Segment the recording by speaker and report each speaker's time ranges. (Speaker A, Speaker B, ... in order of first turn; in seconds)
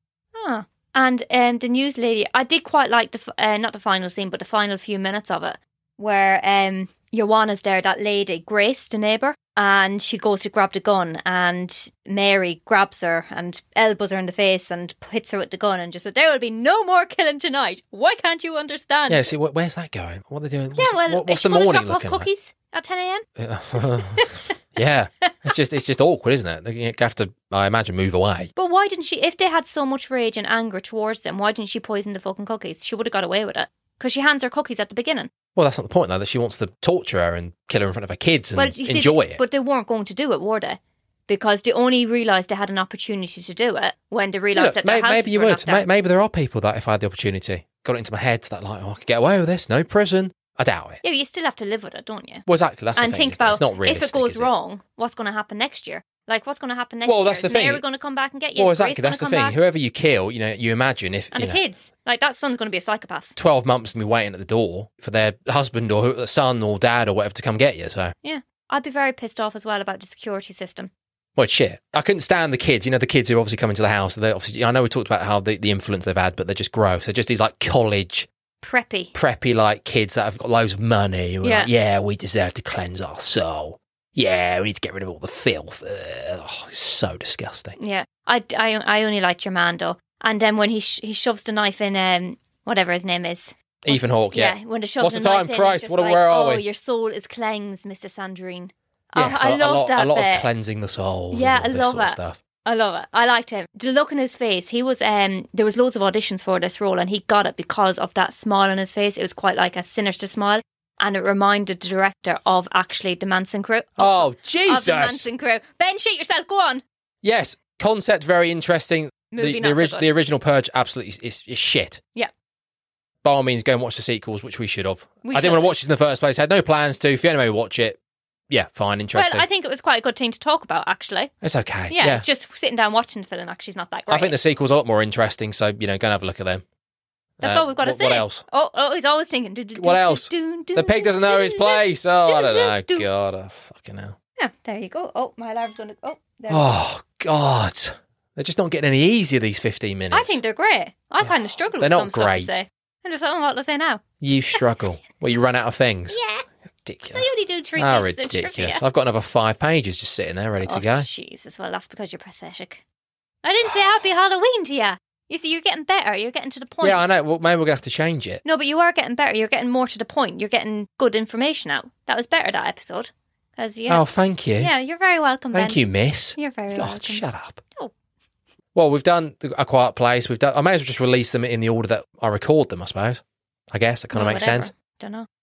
Speaker A: 0.3-19.3, 20.8-23.2, 24.1-24.5, 28.6-35.3, 38.6-45.8, 51.0-52.4, 53.0-59.5, 61.3-63.3, 68.2-70.9, 78.6-79.1, 81.4-81.7, 87.8-100.5, 101.3-116.8, 119.3-120.1, 125.2-125.7, 129.1-131.3, 131.9-134.3, 137.4-143.1, 144.4-146.7, 150.1-154.0, 156.1-156.4, 157.1-158.8, 160.6-162.8, 163.4-167.0, 168.4-174.0, 174.6-175.8, 176.3-177.2, 184.1-185.3
Speaker B: 19.1-22.3, 23.4-28.5, 35.5-39.4, 44.5-51.0, 52.5-54.5, 57.0-57.8, 58.6-61.6, 63.4-68.1, 71.4-78.3, 79.1-87.8, 93.8-96.6, 99.2-102.4, 114.0-115.3, 117.2-122.0, 123.2-128.0, 128.5-129.4, 131.4-132.2, 134.1-136.6, 137.4-138.4, 139.8-144.2, 146.5-150.4, 151.2-152.5, 154.2-156.2, 156.8-161.1, 166.8-168.4, 173.9-174.7, 175.5-177.6, 178.7-184.7